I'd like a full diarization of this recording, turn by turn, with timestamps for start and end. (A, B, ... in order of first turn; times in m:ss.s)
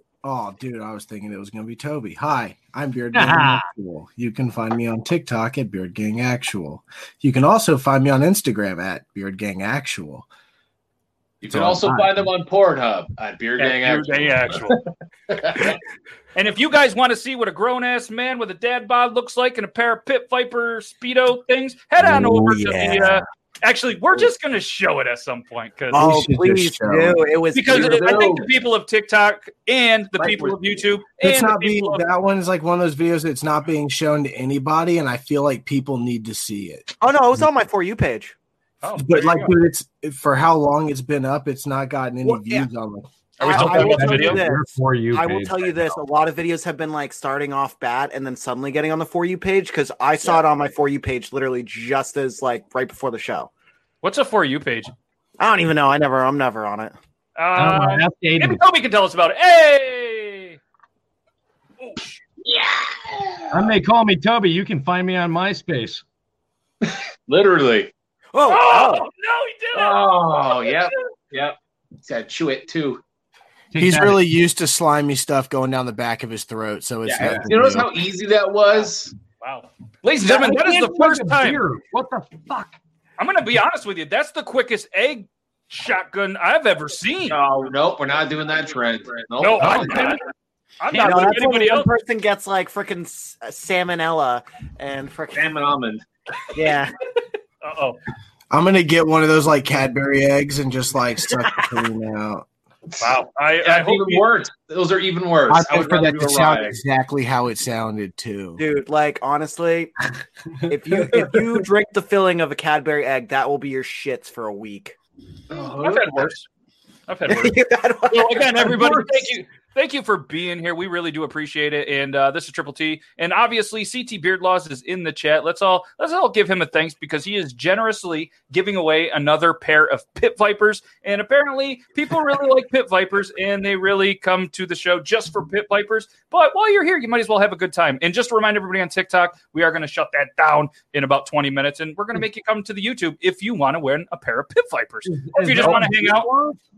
0:00.2-0:10.3 A
0:03.1-0:03.7 B
0:11.4-0:15.8 C
0:11.5-0:11.9 B
0:11.5-0:12.1 A
0:13.6-0:14.8 D
0:16.3-0:26.0 D
0:22.0-0:23.2 E
0:25.9-0:27.2 A
0:25.9-0:28.3 E
0:27.5-0:32.0 D
0:27.7-0:28.5 C
0:30.2-0:30.8 C
0:31.2-0:36.9 A
0:37.0-0:38.3 E
0:38.8-0:39.5 D
0:39.0-0:43.0 A
0:42.2-0:42.7 E
0:43.4-0:53.5 E
0:43.4-0:44.4 D
0:43.5-0:45.7 B
0:54.0-0:54.9 D
0:55.4-0:56.9 E
0:57.4-1:00.6 D
0:57.6-0:58.6 B
1:01.8-1:02.2 D
1:02.4-1:02.8 C
1:03.5-1:06.0 B
1:06.8-1:07.9 C
1:08.3-1:09.0 E
1:08.5-1:10.9 D
1:09.7-1:13.0 C
1:13.7-1:14.3 B
1:13.7-1:18.0 A
1:17.1-1:19.1 C
1:17.2-1:17.5 B
1:19.4-1:21.6 D
1:20.2-1:22.7 B
1:23.2-1:27.4 D
1:27.3-1:30.2 C
1:29.4-1:30.2 D
1:30.8-1:31.9 D
1:30.9-1:35.6 E
1:35.3-1:36.0 C
1:36.5-1:36.9 E
1:37.6-1:38.0 D
1:38.5-1:42.4 A
1:42.9-1:46.8 C
1:43.0-1:44.3 D
1:45.5-1:48.6 A
1:48.6-1:49.9 E
1:50.7-1:54.9 E
1:55.5-1:56.3 C
1:55.5-1:56.4 D
1:57.1-1:57.6 D
1:57.3-1:59.0 E
1:58.1-2:26.3 D
1:58.7-1:59.3 C
2:25.0-2:26.6 B